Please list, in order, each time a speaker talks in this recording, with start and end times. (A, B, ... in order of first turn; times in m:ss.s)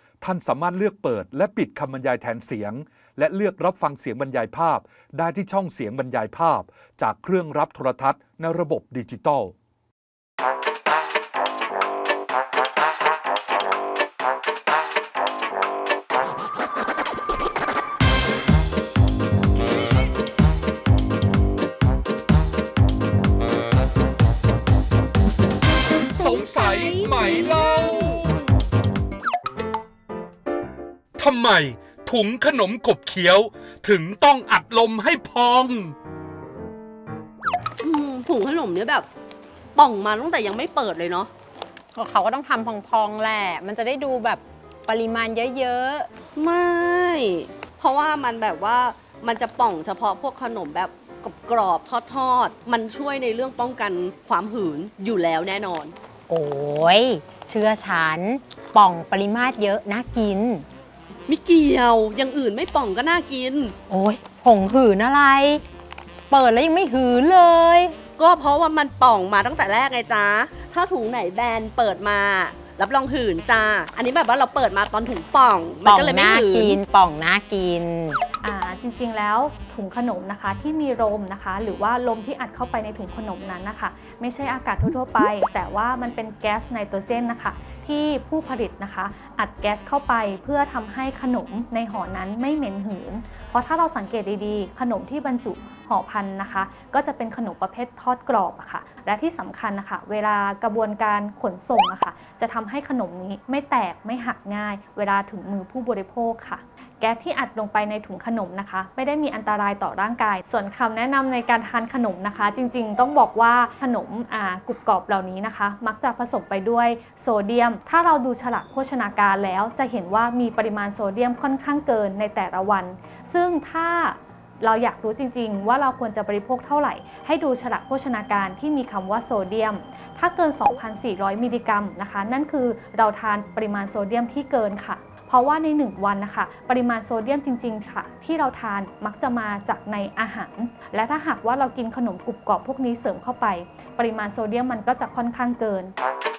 0:00.2-0:09.5 A
0:26.1-0:28.5 B
0:26.8-0:27.1 C
0:31.2-0:36.0 B
0:37.8-0:39.1 D
0:39.7-0:41.3 D
0:42.0-0:46.1 C
0:46.4-0:56.0 D
0:56.3-1:00.6 C
1:01.3-1:03.8 D
1:03.9-1:05.6 C
1:06.3-1:08.0 C
1:08.2-1:16.8 D
1:15.8-1:18.2 C
1:18.4-2:25.9 E